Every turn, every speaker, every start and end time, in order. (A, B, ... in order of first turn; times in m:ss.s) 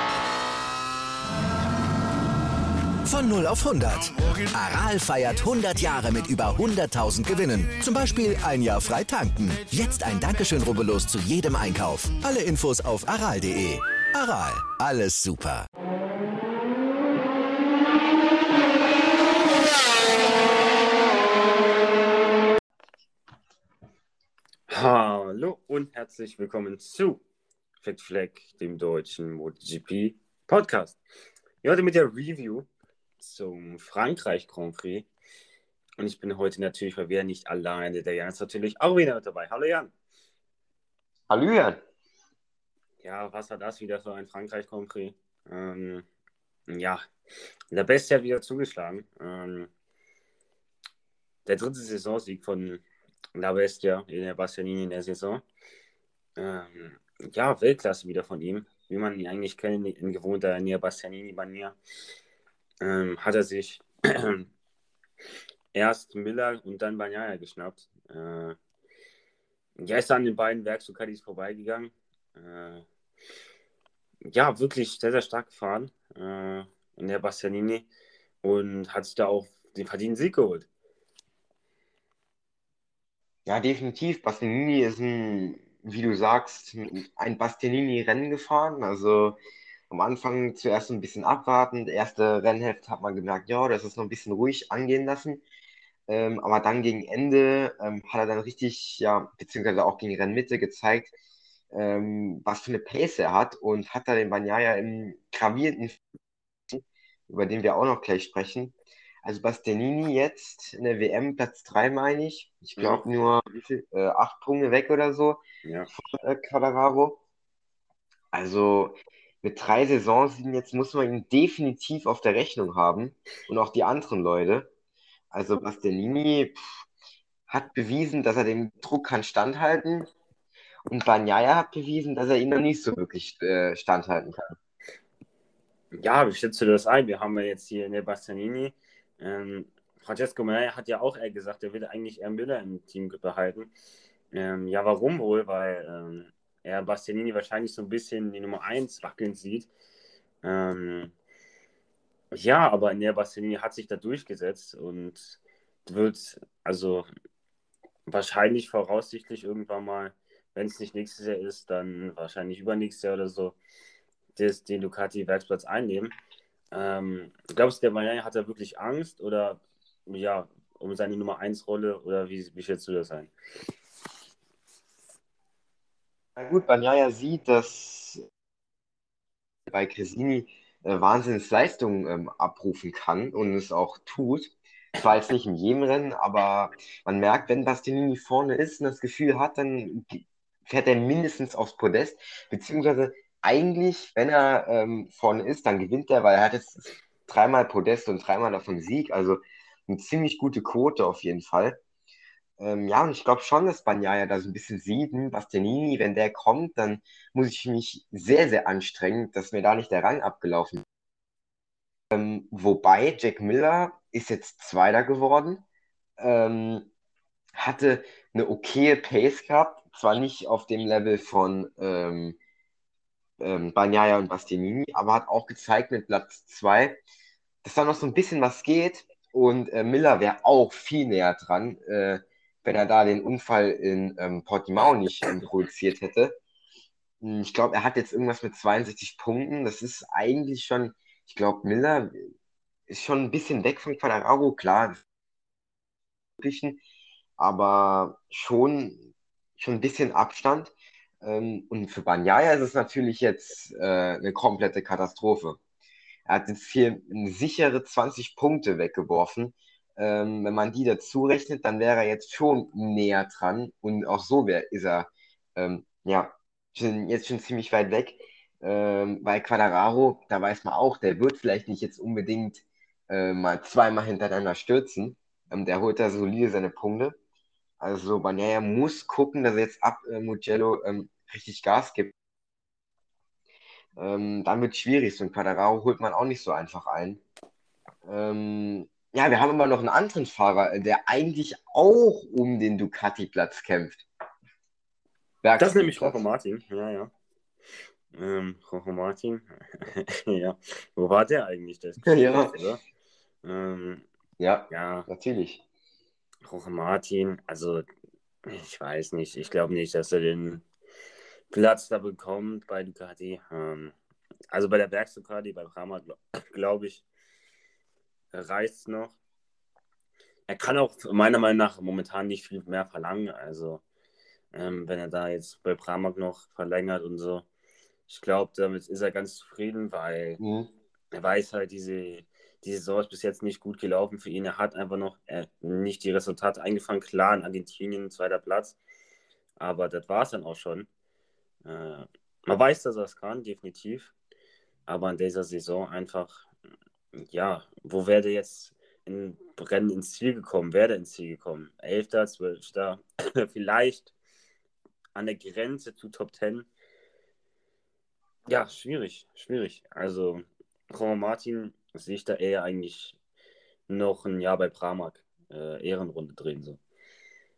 0:03.1-0:15.6 A
0:24.7-0:27.2 B
0:27.8-0:31.0 B
0:31.6-0:32.7 B
0:33.2-0:35.1 B
0:36.0-0:39.9 B
0:41.3-0:41.8 C
0:43.0-0:46.0 B
0:46.7-0:47.0 B
0:47.7-0:49.7 B
0:51.5-0:52.8 B
0:53.4-0:55.4 B
0:56.4-1:01.8 B
1:02.8-1:04.5 B
1:05.7-1:08.6 B
1:09.8-1:12.8 B
1:14.3-1:17.9 B
1:18.4-1:20.7 B
1:23.5-1:35.4 C
1:36.1-1:41.1 C
1:41.7-1:46.0 C
1:46.7-1:57.2 C
1:52.8-1:53.1 B
1:55.6-1:55.9 B
1:58.3-2:04.7 C
2:05.3-2:06.6 C
2:07.5-2:10.1 C
2:10.9-2:14.6 C
2:15.9-2:23.7 B
2:24.3-2:29.7 B
2:30.4-2:31.1 B
2:32.3-2:37.1 B
2:38.1-2:43.6 B
2:44.4-2:46.1 B
2:46.7-2:53.3 B
2:56.4-2:58.2 C
2:59.7-3:21.8 C
3:22.6-3:30.8 C
3:32.1-3:35.6 C
3:36.2-3:36.9 C
3:37.6-3:42.4 C
3:43.4-3:47.0 C
3:47.6-3:56.4 C
3:57.2-4:02.3 C
4:02.9-4:05.0 C
4:06.4-4:06.8 C
4:07.4-4:15.6 C
4:16.3-4:37.2 C
4:37.8-4:42.1 C
4:44.0-4:47.2 C
4:48.0-4:54.0 C
4:55.4-4:56.2 C
4:55.6-4:57.1 B
4:58.1-5:02.8 B
5:02.0-5:02.6 C
5:03.4-5:04.0 B
5:04.4-5:05.6 C
5:04.7-5:05.1 B
5:06.4-5:07.9 B
5:08.4-5:10.6 B
5:11.5-5:14.0 B
5:14.5-5:17.0 B
5:18.3-5:19.2 B
5:20.5-5:23.8 B
5:24.5-5:27.5 B
5:28.1-5:30.4 B
5:30.4-5:30.7 C
5:31.1-5:38.8 B
5:39.6-5:40.9 B
5:41.6-5:44.1 B
5:44.9-5:46.5 B
5:47.2-5:54.1 B
5:55.2-5:56.7 B
5:58.5-6:03.2 B
6:03.9-6:06.8 B